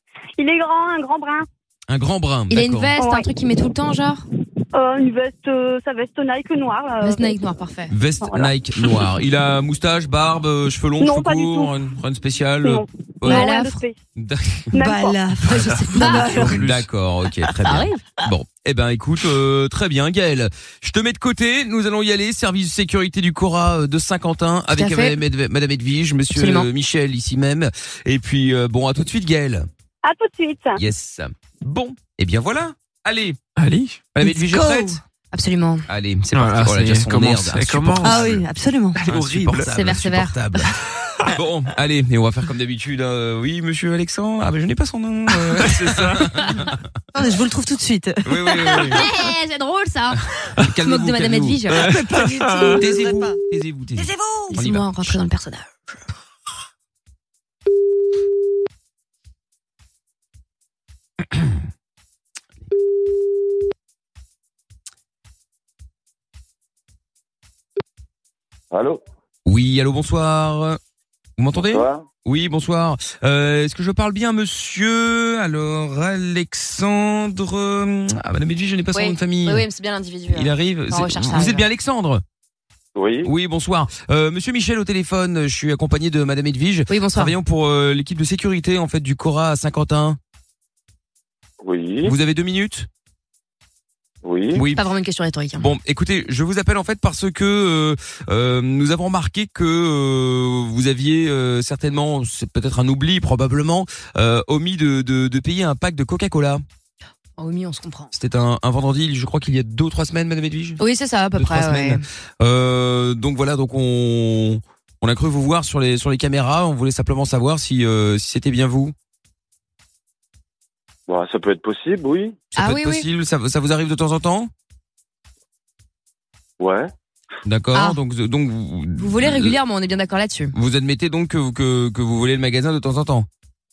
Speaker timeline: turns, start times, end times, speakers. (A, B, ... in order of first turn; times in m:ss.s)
0:00.4-0:01.5 A
0:01.9-0:02.9 B
0:02.5-0:04.2 C
0:03.0-0:03.2 A
0:04.7-0:07.4 A
0:07.0-0:07.9 C
0:07.9-0:13.5 B
0:08.2-0:08.5 A
0:11.0-0:11.7 A
0:12.6-0:14.0 A
0:13.2-0:13.8 C
0:14.2-0:14.7 B
0:14.7-0:15.3 A
0:14.8-0:16.7 D
0:15.4-0:16.8 E
0:15.9-0:16.5 C
0:16.2-0:29.7 B
0:17.6-0:18.0 C
0:24.7-0:25.2 C
0:26.3-0:26.7 C
0:30.0-0:30.8 A
0:30.8-0:33.4 B
0:33.6-0:34.1 E
0:34.1-0:35.0 B
0:34.2-0:35.8 C
0:35.9-0:38.4 B
0:36.3-0:38.4 E
0:38.0-0:39.0 D
0:39.0-0:39.6 E
0:39.0-0:40.7 B
0:39.7-0:40.4 C
0:41.2-0:46.8 B
0:45.7-0:46.4 E
0:47.1-0:49.0 D
0:48.2-0:49.0 B
0:48.8-0:50.2 C
0:50.6-0:52.0 B
0:50.8-0:51.9 C
0:51.7-0:52.8 E
0:51.9-0:53.4 D
0:52.6-0:55.2 B
0:54.0-0:54.5 D
0:54.5-0:55.8 C
1:08.7-1:09.0 F
1:09.4-1:10.8 B
1:11.4-1:19.6 B
1:11.6-1:12.0 F
1:18.9-1:21.6 C
1:20.3-1:22.2 B
1:22.9-1:23.3 F
1:23.2-1:30.2 B
1:26.9-1:27.3 C
1:31.6-1:32.1 F
1:32.0-1:32.9 B
1:34.2-1:34.6 F
1:34.5-1:34.8 B
1:34.7-1:35.7 C
1:35.6-1:46.6 B
1:47.4-1:48.1 C
1:48.1-1:50.8 B
1:50.8-1:52.0 C
1:51.4-1:58.9 B
2:01.1-2:02.4 F
2:02.5-2:04.5 B
2:02.6-2:03.0 C
2:06.6-2:06.9 F
2:07.4-2:09.6 B
2:07.7-2:08.0 C
2:09.0-2:10.5 C
2:10.5-2:13.3 B